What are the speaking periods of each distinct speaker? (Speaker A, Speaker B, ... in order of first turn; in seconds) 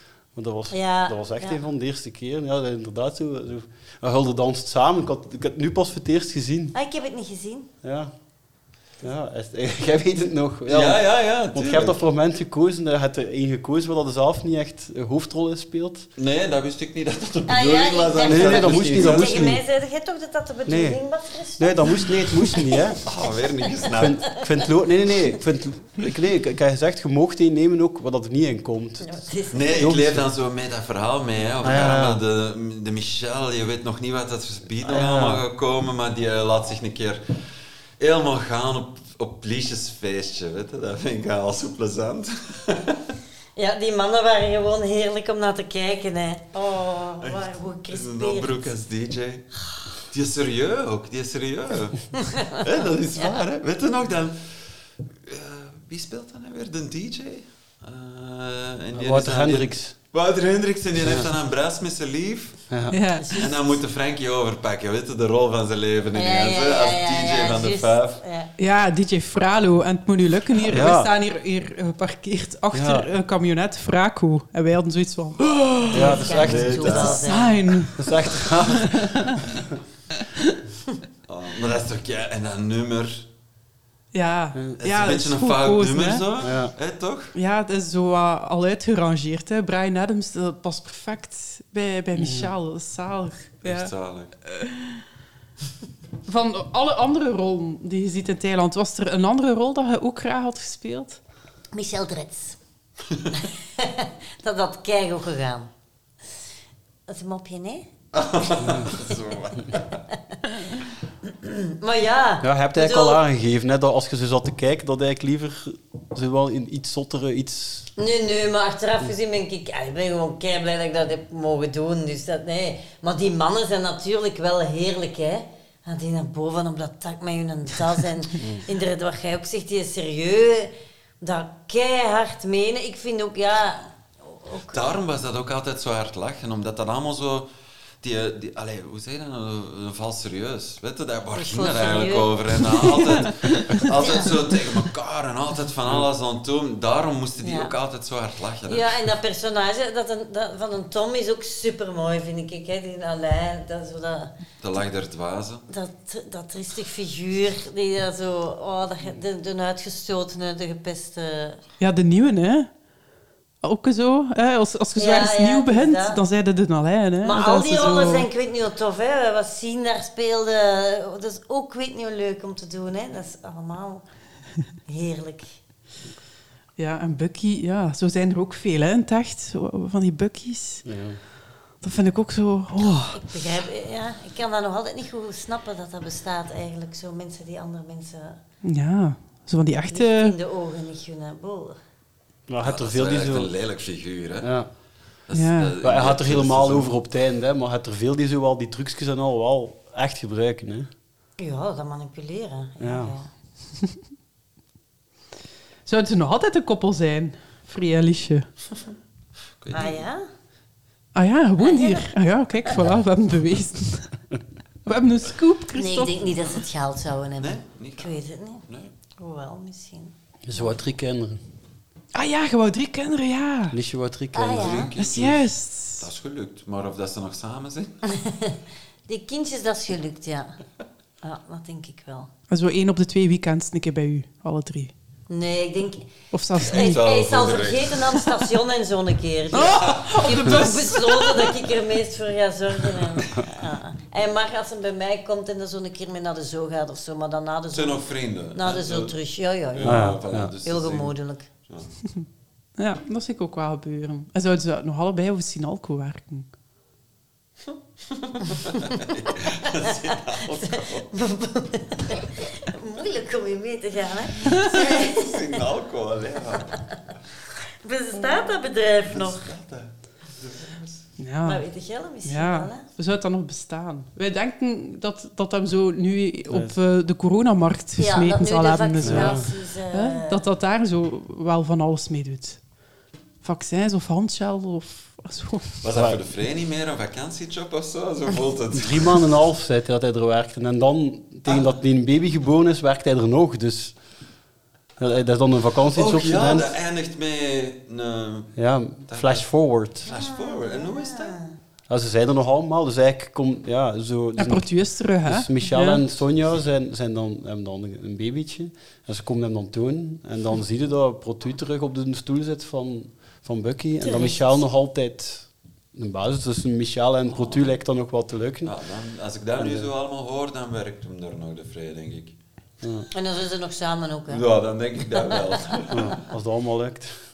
Speaker A: 0.3-6.8, 7.8-8.1, 9.0-16.1, 18.2-19.6, 20.7-21.0, 21.6-23.0, 23.9-29.2, 29.7-30.3, 31.6-32.2, 34.8-35.4, 58.9-60.0, 61.0-61.3, 62.7-63.0, 70.7-71.1, 72.7-73.1, 75.9-77.2, 78.0-79.1, 86.4-86.7, 92.2-92.5, 108.6-108.9, 112.4-117.9, 180.8-181.2, 192.5-193.5, 194.4-194.7, 195.8-200.9, 202.8-203.2, 220.4-221.4, 223.7-224.9, 249.8-250.5, 276.5-276.8, 279.0-279.5, 285.9-286.2, 288.7-294.0, 295.0-296.7, 298.6-300.1, 301.9-318.7, 319.6-319.9, 322.8-323.1, 325.9-327.2
Speaker B: 0.7-1.6, 6.7-7.7, 17.5-22.6, 29.0-29.9, 43.6-48.7, 63.2-63.5, 66.2-68.5, 75.9-77.6, 101.7-102.6, 103.8-105.7, 107.1-107.9, 111.3-113.2, 118.0-134.9, 141.3-142.4, 144.0-144.3, 147.4-147.7, 148.7-154.3, 155.7-161.6, 164.9-166.2, 167.2-174.0, 174.9-175.6, 183.1-188.4, 189.9-191.8, 201.4-203.3, 209.7-210.3, 211.6-212.1, 215.8-218.6, 219.2-220.7, 224.3-224.9, 228.1-228.6, 229.1-230.5, 231.2-232.3, 235.3-248.0, 248.5-250.1, 250.7-251.5, 260.5-265.3, 267.8-269.4, 271.4-272.8, 278.0-280.4, 300.1-301.6, 314.0-314.6, 323.1-324.4
Speaker C: 10.7-12.0, 16.2-19.6, 23.0-24.3, 29.5-37.2, 38.0-43.0, 47.2-49.5, 50.1-54.6, 55.2-62.6, 63.4-68.2, 76.5-77.2, 81.3-83.3, 84.8-87.3, 93.6-94.3, 108.1-110.0, 134.7-137.5, 138.0-149.0, 154.6-155.7, 192.6-194.5, 195.3-196.9, 209.6-210.1, 217.4-218.9, 224.6-228.0, 236.6-238.1, 247.7-249.2, 249.7-251.1, 251.7-251.9, 258.4-261.1, 264.7-266.8, 269.1-271.0, 285.8-289.3, 291.5-291.8, 295.9-298.5, 299.1-299.5, 300.1-301.4, 317.4-317.6, 318.6-322.4, 324.3-326.1
Speaker D: 62.9-63.4, 68.6-76.2, 77.0-78.0, 78.8-79.4, 84.1-86.2, 87.3-93.9, 94.5-95.0, 96.3-101.2, 161.8-162.7, 163.6-168.3, 176.8-180.9, 181.8-183.2, 188.6-190.4, 195.3-195.8, 205.9-208.5, 211.2-214.1, 214.9-216.3, 222.2-223.8, 225.0-226.1, 232.5-234.9, 236.3-237.0, 239.5-241.5, 252.8-256.5, 271.2-271.6, 272.2-282.6, 283.4-285.8, 304.4-306.0